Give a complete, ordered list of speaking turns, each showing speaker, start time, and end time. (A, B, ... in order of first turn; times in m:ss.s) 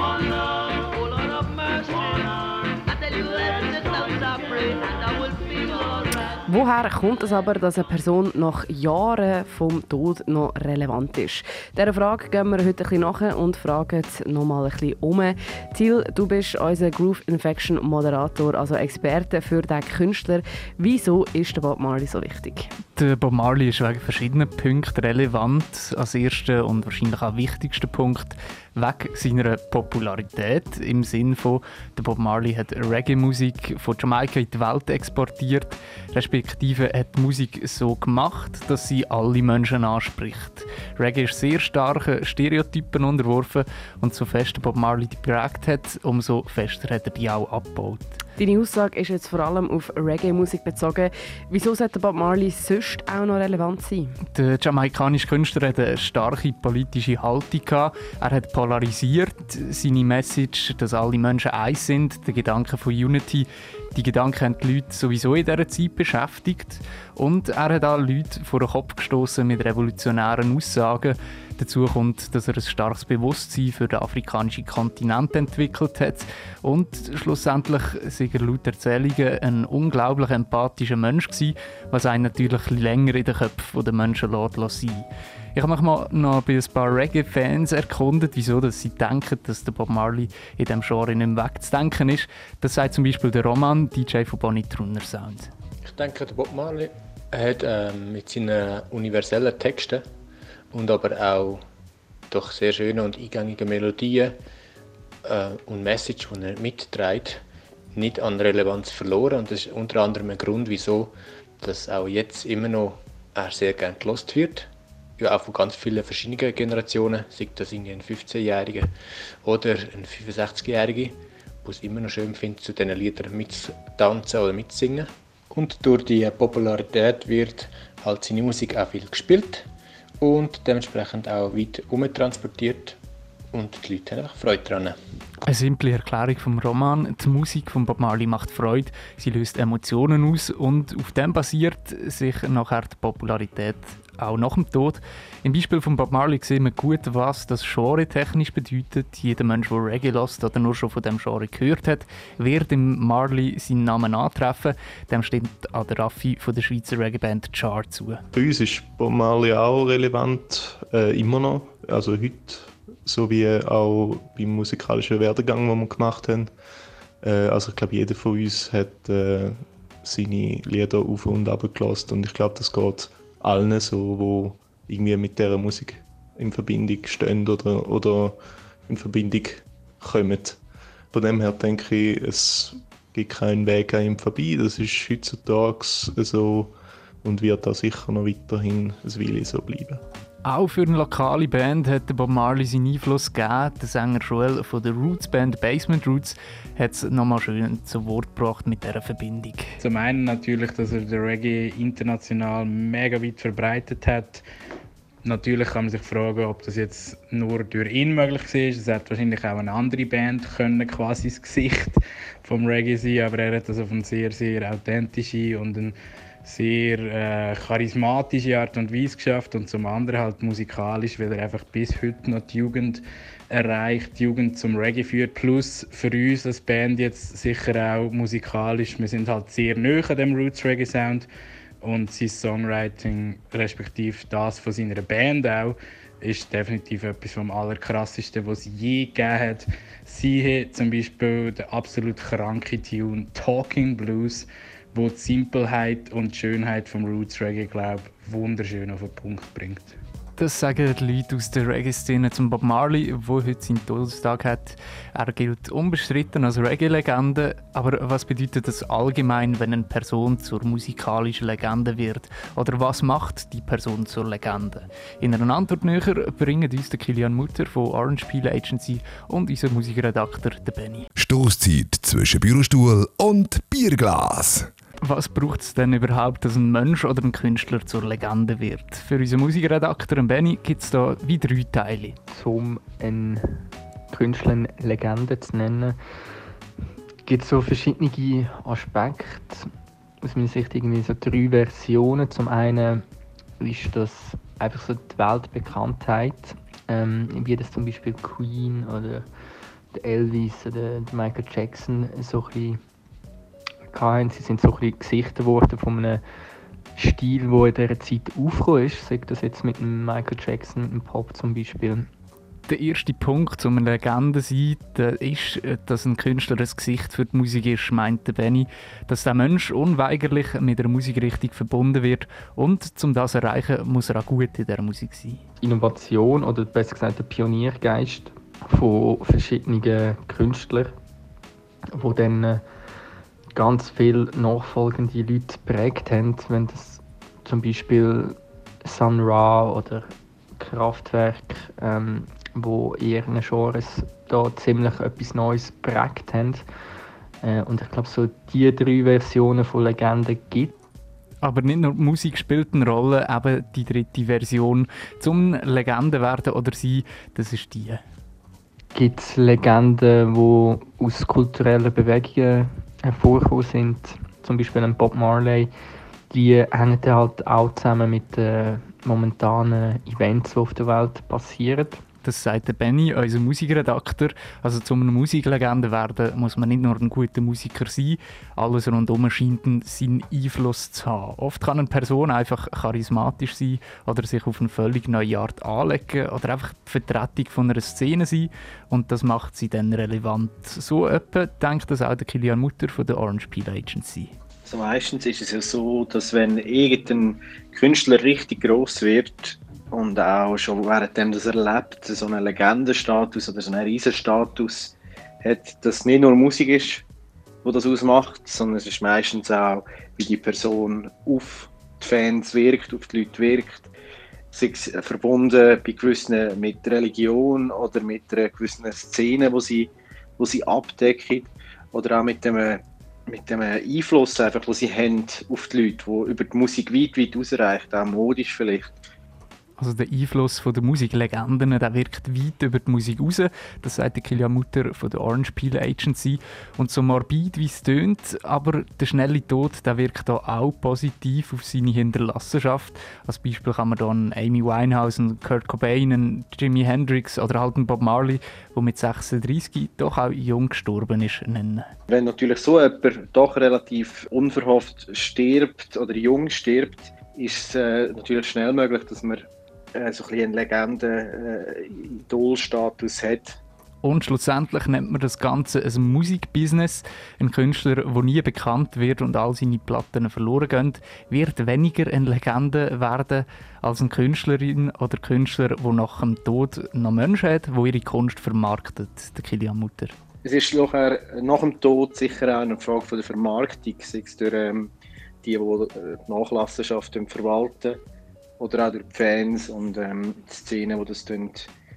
0:06.4-0:22.7 A
0:23.0-0:48.2 B
0:48.4-0:54.1 A
0:54.3-1:35.5 B
1:35.8-1:40.0 C
1:40.7-1:41.6 C
1:42.3-1:44.4 C
1:45.2-1:47.4 C
1:47.9-1:58.9 C
1:59.4-2:09.6 C
2:10.2-2:13.0 C
2:13.5-2:15.0 C
2:15.4-2:38.2 B
2:38.3-2:46.5 D
2:47.2-3:00.6 D
3:01.1-3:10.0 D
3:10.4-3:19.7 B
3:19.8-3:24.4 E
3:25.2-3:51.3 E
3:51.8-4:10.0 E
4:10.4-4:31.1 B
4:31.2-4:34.7 F
4:35.0-4:42.2 B
4:42.3-4:46.0 G
4:47.2-4:49.6 G
4:50.2-4:53.0 G
4:53.6-4:59.2 G
4:59.9-5:02.8 G
5:03.9-5:06.2 G
5:07.0-5:12.1 G
5:12.7-5:25.4 B
5:25.6-5:30.9 G
5:31.9-5:32.6 G
5:33.5-5:46.6 G
5:47.4-5:50.7 G
5:51.4-5:58.0 B
5:58.9-6:05.7 G
6:06.3-6:12.0 G
6:12.2-6:34.3 B
6:34.6-6:47.0 H
6:47.6-6:53.9 H
6:54.5-7:08.9 H
7:09.8-7:31.9 B
7:32.1-7:43.6 H
7:44.0-8:00.1 B
8:00.4-8:04.9 H
8:05.4-8:08.0 H
8:08.6-8:11.7 H